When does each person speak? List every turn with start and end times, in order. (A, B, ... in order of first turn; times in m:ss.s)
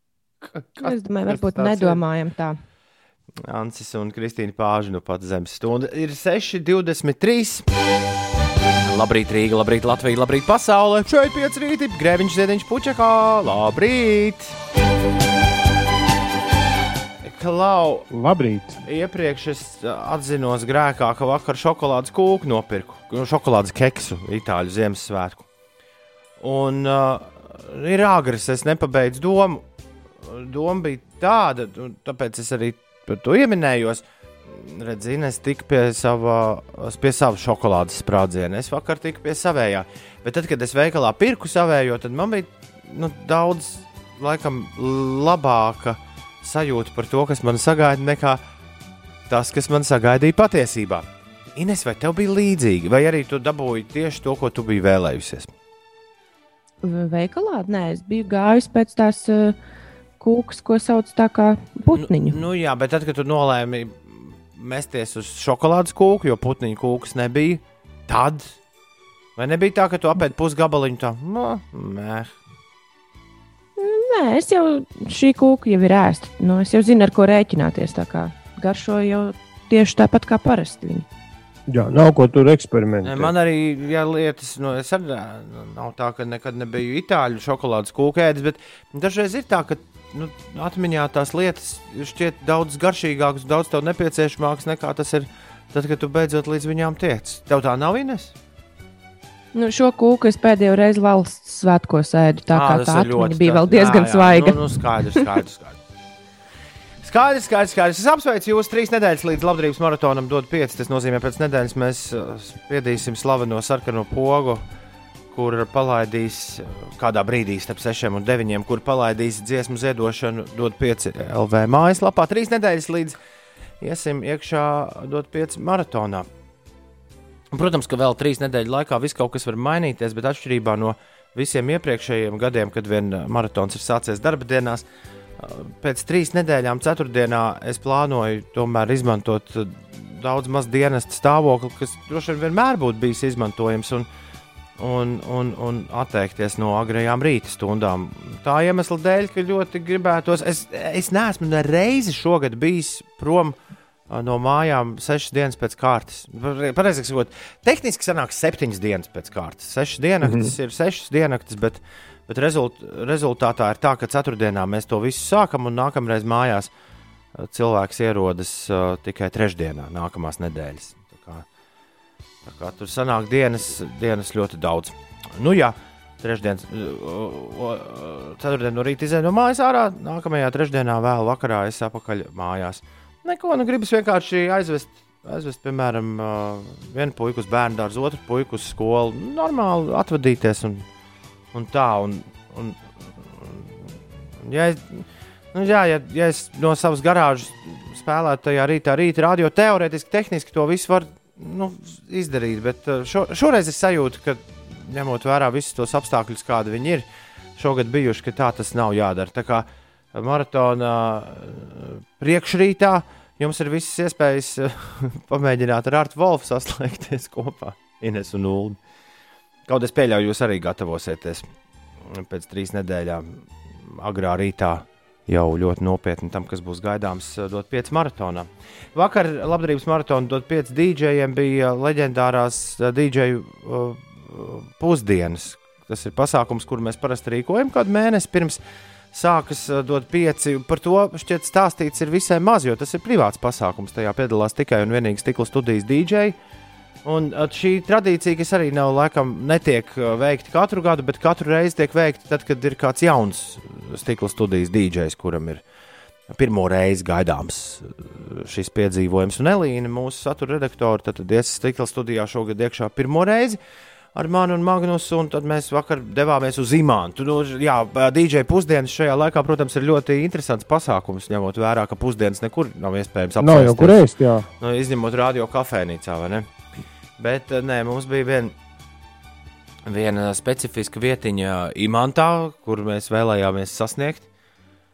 0:00.4-0:02.0 A
0:00.8-0:02.6 B
0:03.4-0:07.6 A
0:08.8-0:14.5 A
0:17.2-0:18.1 A
0:18.1-0:18.8 C
0:18.8-0:25.4 A
0:26.4-0:29.6 A
0:30.2-0:48.4 A
0:49.3-0:55.5 A
0:56.8-0:59.6 B
1:00.2-1:02.4 B
1:01.9-1:08.6 A
1:09.4-1:12.3 A
1:13.8-1:21.0 B
1:21.7-1:23.3 C
1:23.0-1:38.3 A
1:39.5-1:44.6 B
1:42.5-1:45.8 A
1:47.0-1:54.6 A
1:55.3-2:03.2 A
2:03.8-2:06.3 A
2:07.5-2:14.8 A
2:15.4-2:24.1 A
2:24.8-2:33.5 A
2:34.1-2:46.7 A
2:40.2-2:40.5 C
2:47.3-2:51.4 A
2:52.4-3:10.8 A
3:11.5-3:13.6 A
3:14.4-3:38.8 A
3:39.7-3:41.4 A
3:42.1-3:58.6 A
3:59.1-4:06.4 A
4:07.0-4:15.6 A
4:16.3-4:23.6 A
4:24.1-4:34.0 A
4:33.4-4:34.4 C
4:34.6-4:36.5 A
4:37.2-4:38.5 A
4:39.8-4:44.2 A